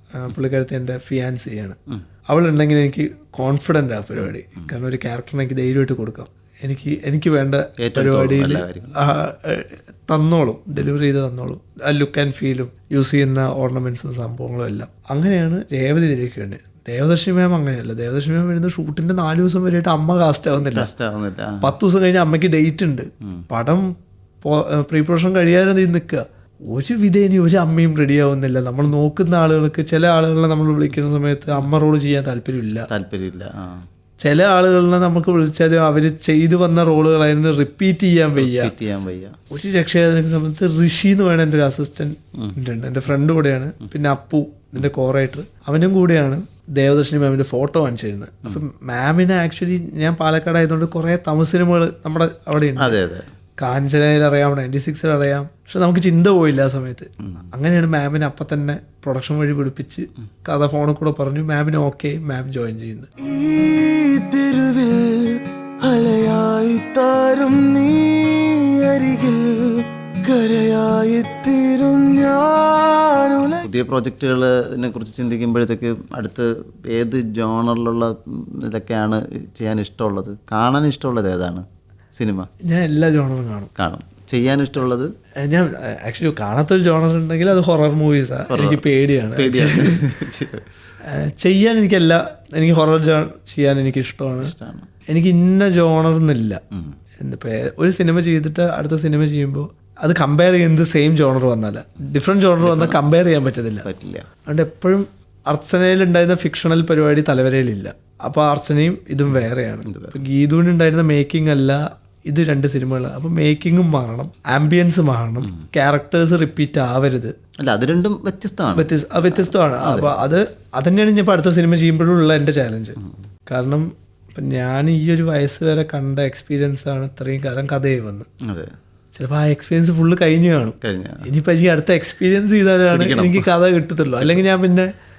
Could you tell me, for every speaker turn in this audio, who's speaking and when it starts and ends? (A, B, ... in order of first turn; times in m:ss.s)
0:00.1-0:20.9 A
0:07.8-0:09.0 B
0:20.6-0:21.7 B
0:21.6-0:23.8 A
0:24.4-0:32.9 A
0:32.9-0:33.8 B
0:34.2-0:38.7 A
0:38.4-0:39.3 B
0:39.5-0:53.0 A
0:52.8-0:53.3 B
0:53.6-1:03.1 A
1:03.2-1:13.6 C
1:13.6-1:21.6 B
1:22.1-1:22.5 B
1:22.6-1:23.7 A
1:23.8-1:25.1 B
1:25.4-1:30.1 A
1:28.5-1:28.8 B
1:29.4-1:30.6 B
1:31.1-1:34.5 A
1:34.4-1:34.9 B
1:35.1-1:36.6 A
1:37.2-1:43.8 A
1:42.6-1:43.0 B
1:43.8-1:44.2 B
1:44.4-1:57.3 A
1:49.3-1:50.2 B
1:57.6-2:00.2 B
1:58.7-2:08.3 A
2:09.1-2:14.9 A
2:10.8-2:11.3 B
2:12.9-2:13.5 B
2:14.2-2:14.4 B